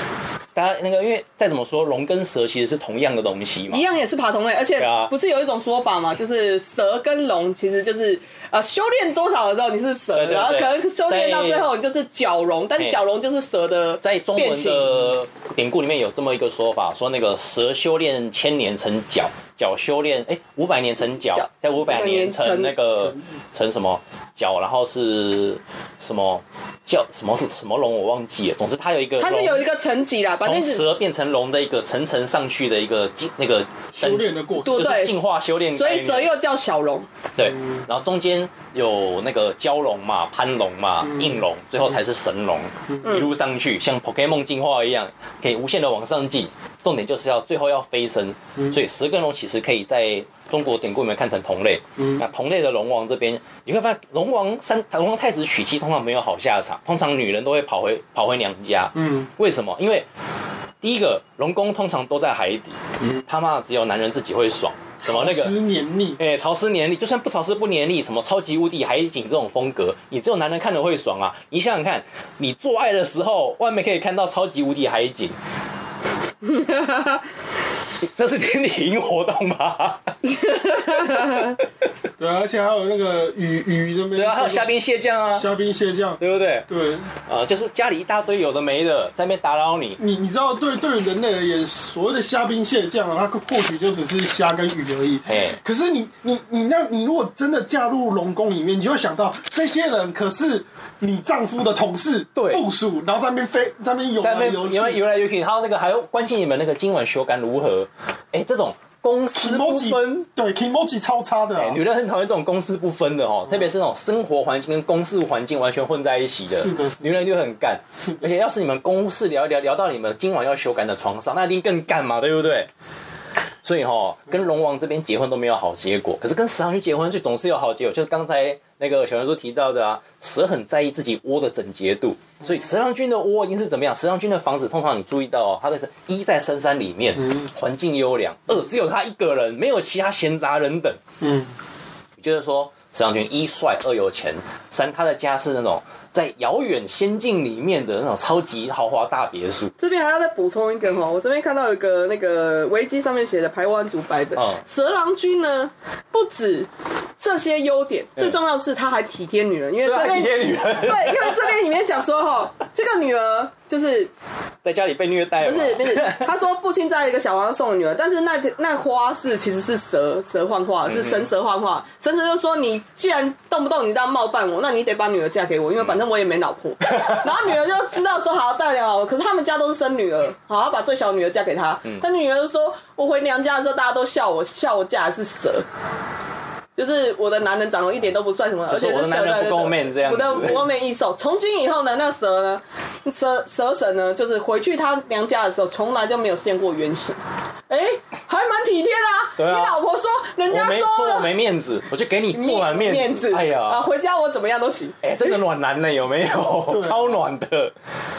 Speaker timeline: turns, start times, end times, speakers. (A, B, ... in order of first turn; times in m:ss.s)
0:00.6-0:03.8 A
0:03.7-0:15.1 B
0:04.8-0:05.1 A
0:10.1-0:11.7 A
0:14.0-0:29.6 A
0:21.0-0:22.9 B
0:29.2-0:30.9 B
0:30.4-0:36.3 A
0:33.9-0:34.8 C
0:34.6-0:35.2 B
0:35.7-0:37.1 B
0:37.4-1:00.1 A
0:41.0-0:41.4 C
0:43.0-0:43.3 B
0:59.0-0:59.3 C
1:00.8-1:05.5 A
1:05.0-1:06.2 C
1:06.2-1:15.4 A
1:16.5-1:17.0 B
1:18.0-1:20.1 A
1:20.5-1:21.6 B
1:20.9-1:21.4 A
1:22.2-1:24.7 C
1:24.1-1:25.5 A
1:25.3-1:27.1 C
1:26.2-1:30.0 A
1:30.0-1:45.0 C
1:35.3-1:35.6 A
1:42.4-1:42.6 A
1:44.2-1:50.3 A
1:49.3-1:51.8 C
1:51.6-2:02.7 A
1:56.5-1:57.2 C
1:58.0-1:58.3 C
2:03.6-2:21.0 A
2:21.2-2:21.5 C
2:22.2-2:29.7 A
2:29.8-2:44.1 B
2:34.4-2:34.6 A
2:39.8-2:41.5 A
2:44.6-2:46.3 A
2:45.4-3:05.7 B
2:50.9-2:51.2 A
3:06.8-3:17.2 B
3:08.7-3:10.6 A
3:17.7-3:21.3 B
3:19.4-3:19.8 A
3:20.5-3:23.8 A
3:22.3-3:25.4 B
3:25.0-3:27.7 A
3:26.7-3:27.2 C